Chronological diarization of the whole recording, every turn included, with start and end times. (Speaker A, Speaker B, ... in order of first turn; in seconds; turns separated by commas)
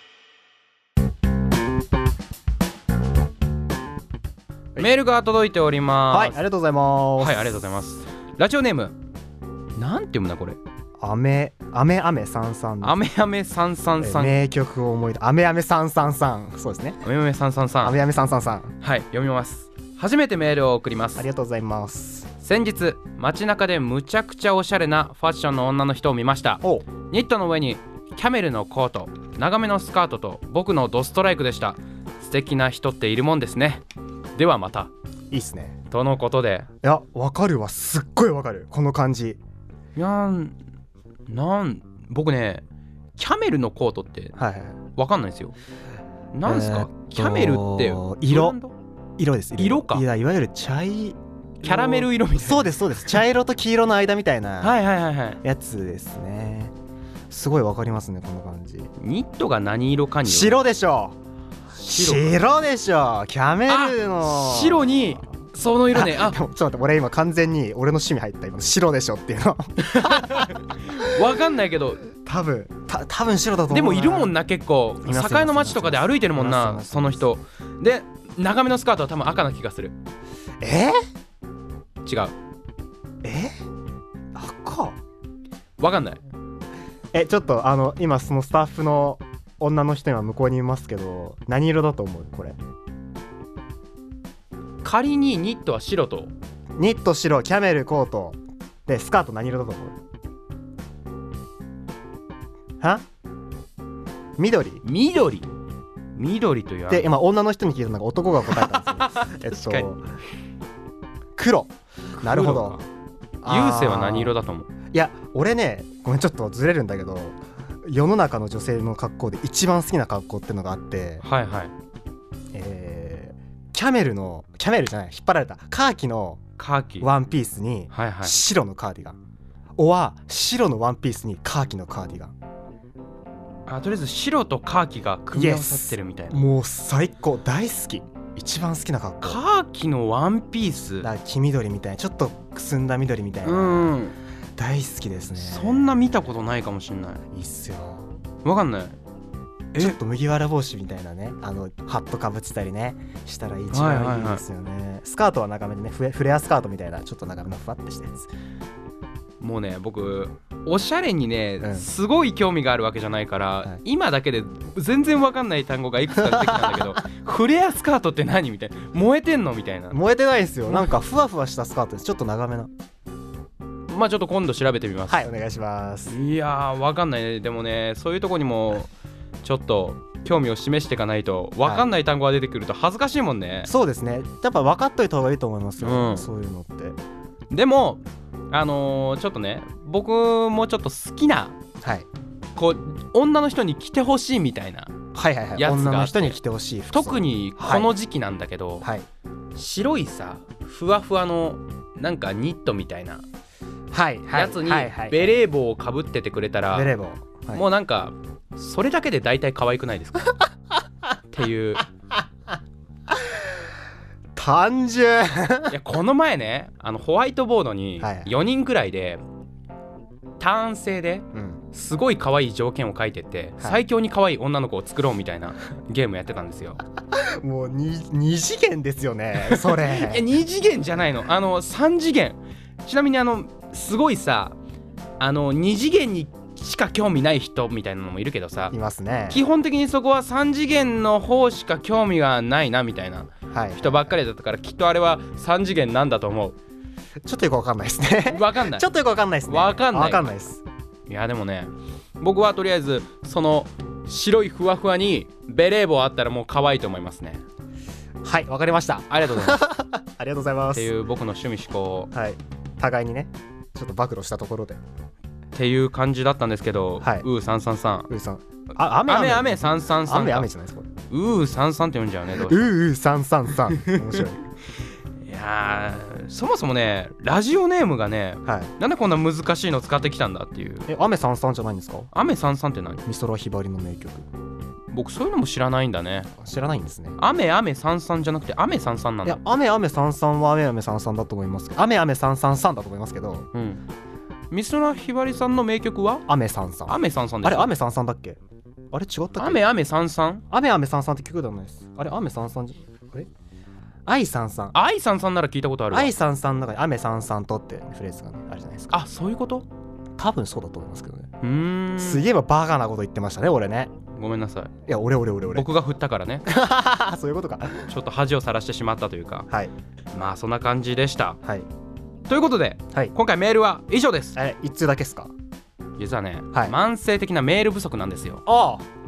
Speaker A: 4.8-6.4, Speaker B: 6.1-7.6, Speaker A: 7.2-8.9, Speaker A: 9.8-10.6, Speaker B: 11.0-13.0, Speaker A: 12.8-14.3, Speaker B: 14.0-17.0, Speaker A: 17.0-18.0, Speaker B: 17.8-18.8, Speaker A: 18.8-21.2, Speaker B: 21.2-22.3, Speaker A: 22.4-33.8, Speaker A: 34.4-34.9, Speaker B: 35.3-35.8, Speaker A: 35.9-36.7, Speaker B: 36.8-39.4, Speaker A: 40.0-40.6, Speaker A: 41.3-42.6, Speaker A: 43.2-44.3, Speaker B: 44.4-44.8, Speaker A: 45.0-45.5, Speaker A: 46.3-48.7, Speaker B: 46.4-48.5, Speaker B: 49.2-54.8, Speaker A: 49.6-50.0, Speaker A: 51.6-53.2, Speaker A: 54.6-55.4, Speaker B: 55.4-56.7, Speaker B: 57.3-58.9, Speaker A: 59.0-60.6, Speaker B: 60.2-61.2, Speaker A: 61.7-62.4, Speaker B: 61.8-65.0, Speaker A: 63.7-66.4, Speaker B: 65.9-71.1, Speaker A: 69.8-72.0, Speaker B: 72.1-74.3, Speaker A: 73.7-79.9, Speaker B: 75.0-77.2, Speaker B: 80.6-81.0, Speaker A: 82.0-82.3, Speaker B: 83.2-83.5, Speaker B: 84.3-85.0, Speaker A: 85.8-86.2, Speaker B: 87.1-92.6, Speaker A: 94.8-96.3, Speaker B: 96.8-100.0, Speaker B: 104.4-104.8, Speaker A: 104.8-105.5, Speaker A: 106.2-107.1, Speaker B: 106.9-110.0, Speaker A: 108.5-109.9, Speaker B: 111.3-112.8, Speaker A: 112.2-112.8, Speaker B: 113.4-114.3, Speaker A: 113.5-114.7, Speaker B: 114.9-121.2, Speaker A: 121.2-121.7, Speaker B: 122.5-126.4, Speaker A: 126.6-127.1, Speaker B: 127.0-129.2, Speaker A: 127.9-128.4, Speaker B: 129.8-132.3, Speaker A: 133.7-136.4, Speaker B: 135.3-139.4, Speaker A: 139.2-141.1, Speaker B: 141.0-143.9, Speaker A: 143.4-144.1, Speaker B: 144.6-146.0, Speaker A: 145.4-147.2, Speaker B: 147.3-148.1, Speaker A: 148.4-148.9, Speaker B: 149.7-158.3, Speaker A: 153.7-154.4, Speaker A: 159.4-170.0, Speaker B: 161.6-161.9, Speaker B: 166.2-167.0, Speaker B: 169.9-172.7, Speaker A: 173.9-175.2, Speaker B: 175.1-176.1, Speaker A: 176.1-178.9, Speaker A: 179.4-183.7, Speaker B: 183.7-187.0, Speaker A: 185.8-186.3, Speaker A: 187.5-191.6, Speaker B: 191.8-192.1, Speaker A: 192.6-194.9, Speaker B: 195.1-197.9, Speaker A: 195.6-196.4, Speaker A: 196.9-198.9, Speaker B: 198.8-199.1, Speaker A: 199.5-203.2, Speaker B: 203.9-205.3, Speaker A: 204.3-206.9, Speaker B: 206.7-207.6, Speaker A: 207.5-210.4, Speaker A: 211.3-211.9, Speaker B: 214.3-215.7, Speaker A: 215.7-219.2, Speaker B: 218.0-218.3, Speaker A: 220.4-226.8, Speaker B: 221.3-221.6, Speaker B: 227.1-230.2, Speaker A: 229.4-234.6, Speaker A: 235.2-238.8, Speaker B: 238.7-239.4, Speaker A: 239.3-246.6, Speaker B: 243.5-244.1, Speaker B: 247.2-250.6, Speaker A: 248.2-248.9, Speaker A: 249.5-250.3, Speaker A: 251.1-257.4, Speaker B: 258.2-260.9, Speaker A: 259.1-259.6, Speaker A: 260.7-262.1, Speaker B: 262.1-264.8, Speaker A: 265.5-268.1, Speaker B: 267.0-267.3, Speaker B: 268.1-270.9, Speaker A: 269.0-270.5, Speaker A: 271.1-272.7, Speaker B: 272.4-274.4, Speaker A: 273.7-274.0, Speaker A: 275.2-280.9, Speaker B: 278.4-278.7, Speaker B: 280.9-282.1, Speaker A: 282.1-283.0, Speaker B: 283.0-284.3, Speaker A: 284.9-286.3, Speaker B: 286.3-287.2, Speaker A: 287.2-289.4, Speaker B: 289.2-293.5, Speaker A: 293.5-293.8, Speaker A: 294.5-296.2, Speaker B: 296.3-298.4, Speaker A: 296.9-297.7, Speaker B: 298.9-299.6, Speaker A: 299.4-300.4, Speaker B: 300.5-303.3, Speaker B: 304.1-304.7, Speaker A: 304.7-306.1, Speaker B: 305.9-309.0, Speaker A: 308.9-309.6, Speaker B: 310.2-311.3, Speaker A: 311.4-312.2, Speaker B: 312.0-313.9, Speaker A: 314.1-314.7, Speaker B: 314.9-315.7, Speaker A: 315.5-316.4, Speaker B: 316.4-317.9, Speaker A: 317.9-319.5, Speaker A: 320.1-321.4, Speaker A: 322.3-324.4, Speaker B: 324.4-325.3, Speaker A: 326.0-328.4, Speaker B: 328.4-328.9